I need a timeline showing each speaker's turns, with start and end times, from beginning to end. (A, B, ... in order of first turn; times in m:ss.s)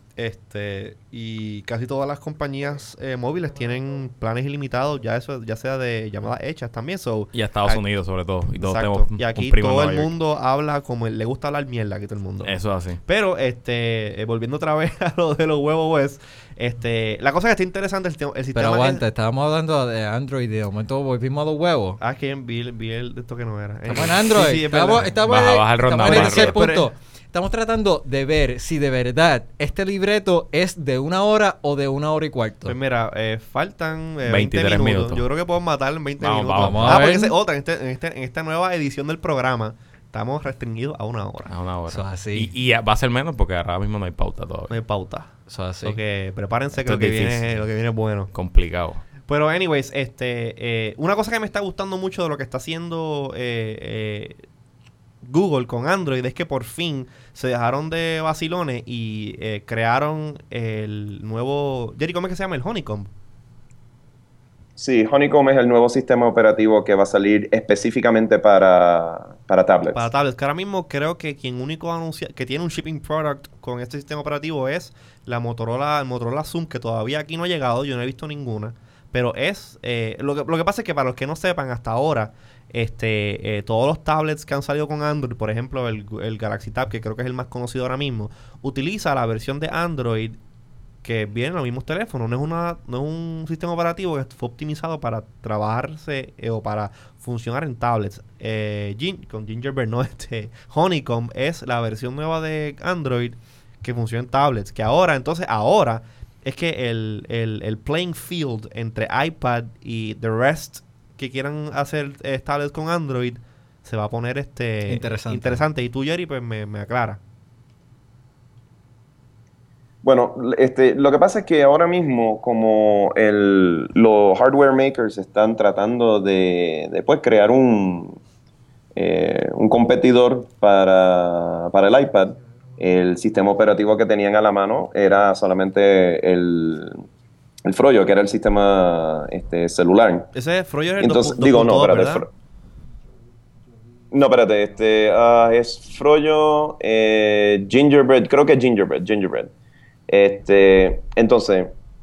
0:00.2-0:07.8 A
0:07.3-0:10.1 B
0:08.5-0:12.5 A
0:12.4-0:13.0 B
0:13.0-0:19.0 A
0:18.5-0:22.0 C
0:22.0-0:25.2 A
0:23.9-0:32.8 C
0:25.1-0:26.6 B
0:26.0-0:26.9 A
0:32.6-0:41.5 A
0:34.2-0:35.2 B
0:36.2-0:37.0 B
0:36.6-0:37.3 C
0:41.5-0:44.8 B
0:41.9-0:42.5 C
0:44.7-0:45.3 A
0:45.5-0:46.0 C
0:45.8-0:48.3 A
0:46.8-0:47.6 B
0:48.3-0:49.0 B
0:49.2-0:54.4 A
0:55.2-1:03.1 A
1:04.8-1:10.1 D
1:09.9-1:30.4 A
1:31.0-1:57.2 A
1:54.9-1:55.6 C
2:00.0-2:08.2 D
2:09.0-2:17.0 D
2:17.6-2:20.3 D
2:20.3-2:22.2 A
2:21.0-2:22.3 D
2:24.1-2:29.5 D
2:30.1-2:31.7 D